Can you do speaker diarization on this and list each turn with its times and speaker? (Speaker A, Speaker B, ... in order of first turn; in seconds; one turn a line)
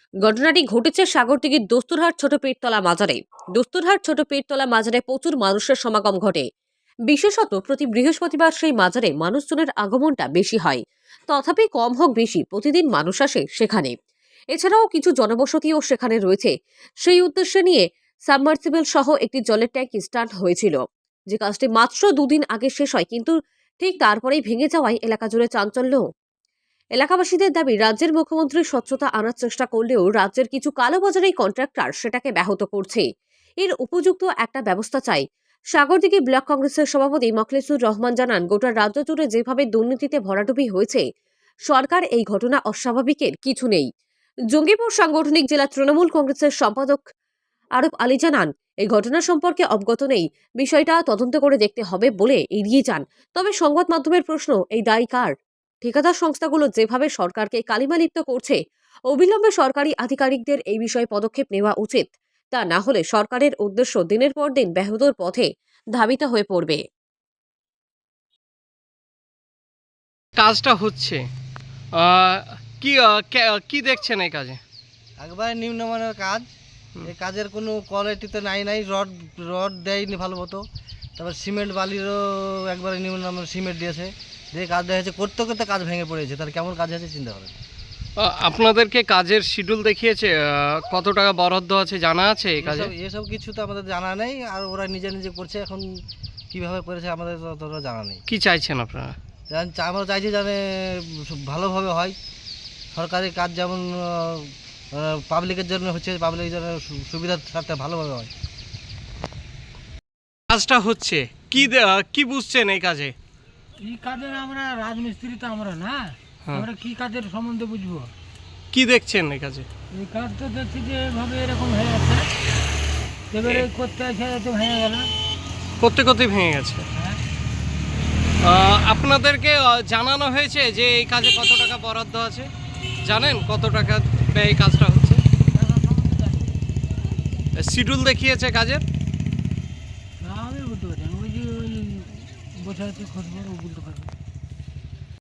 Speaker A: 0.2-6.5
Speaker A: 7.1-13.9
Speaker A: 14.6-16.5
Speaker A: 17.1-20.8
Speaker A: 21.3-26.1
Speaker A: 27.0-33.1
Speaker A: 33.6-35.2
Speaker A: 35.8-41.0
Speaker A: 41.7-43.9
Speaker A: 44.5-47.0
Speaker A: 47.8-55.3
Speaker A: 55.8-58.6
Speaker A: 59.1-66.8
Speaker B: 70.4-71.2
Speaker B: 72.0-74.6
Speaker C: 75.2-76.5
Speaker C: 77.0-80.6
Speaker C: 81.2-87.5
Speaker B: 88.2-92.9
Speaker C: 92.6-95.9
Speaker C: 96.5-98.2
Speaker B: 98.3-99.2
Speaker C: 99.5-102.2
Speaker C: 102.9-108.3
Speaker B: 110.5-113.2
Speaker D: 113.8-118.1
Speaker B: 118.7-119.7
Speaker D: 119.9-122.3
Speaker D: 123.3-125.1
Speaker B: 125.8-126.8
Speaker B: 128.4-132.5
Speaker B: 133.1-135.2
Speaker D: 135.5-136.5
Speaker B: 137.6-138.8
Speaker D: 140.2-144.1